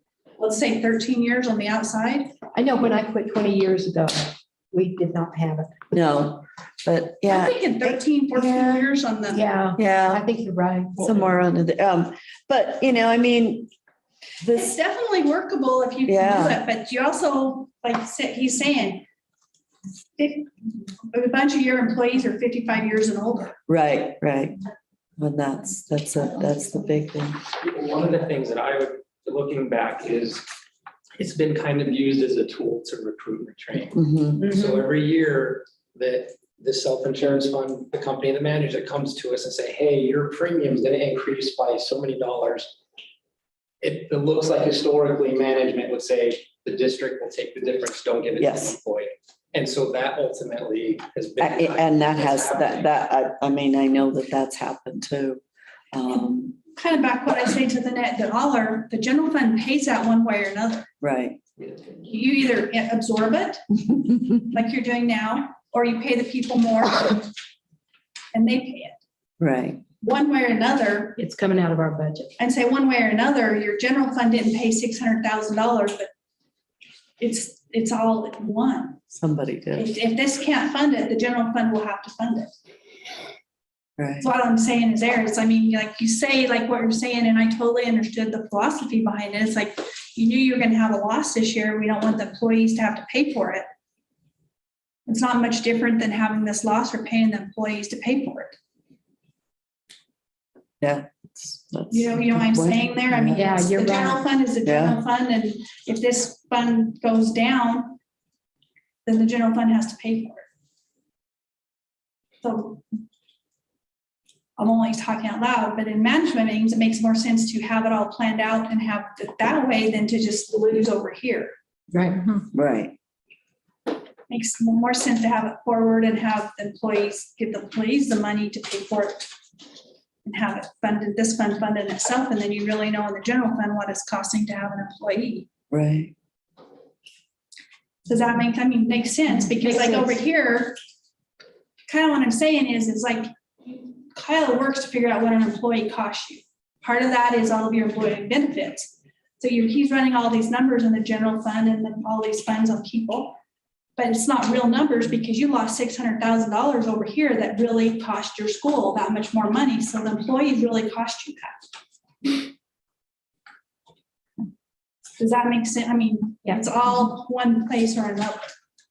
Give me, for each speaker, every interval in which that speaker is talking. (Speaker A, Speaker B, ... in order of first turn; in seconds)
Speaker A: 0.4-2.4, 7.3-9.5, 14.5-19.0, 20.2-20.5, 21.0-23.5, 56.8-60.9, 62.0-67.3, 68.3-69.0, 70.0-71.2, 72.4-76.1, 77.2-79.0, 79.8-82.5, 84.2-93.7, 95.0-98.6, 101.9-108.0, 109.0-110.4, 112.4-112.8, 114.6-121.5, 124.3-129.3, 130.2-135.5, 138.1-140.8, 141.9-153.4, 154.0-161.6, 165.2-168.5
Speaker B: 2.5-5.7, 9.3-11.3, 34.4-34.8, 71.2-72.3, 103.3-104.2, 121.9-122.2, 139.6-140.1
Speaker C: 5.9-8.9, 9.8-10.2, 10.9-13.7, 14.4-14.8, 16.1-16.6, 23.7-24.6, 25.2-27.4, 33.9-34.5, 48.4-48.8, 51.4-56.6, 61.0-61.4, 69.4-69.8, 79.1-79.9, 84.0-84.3, 100.8-103.4, 104.6-105.0, 122.5-122.9, 135.7-136.1
Speaker D: 27.6-30.4, 31.2-42.7, 43.8-52.9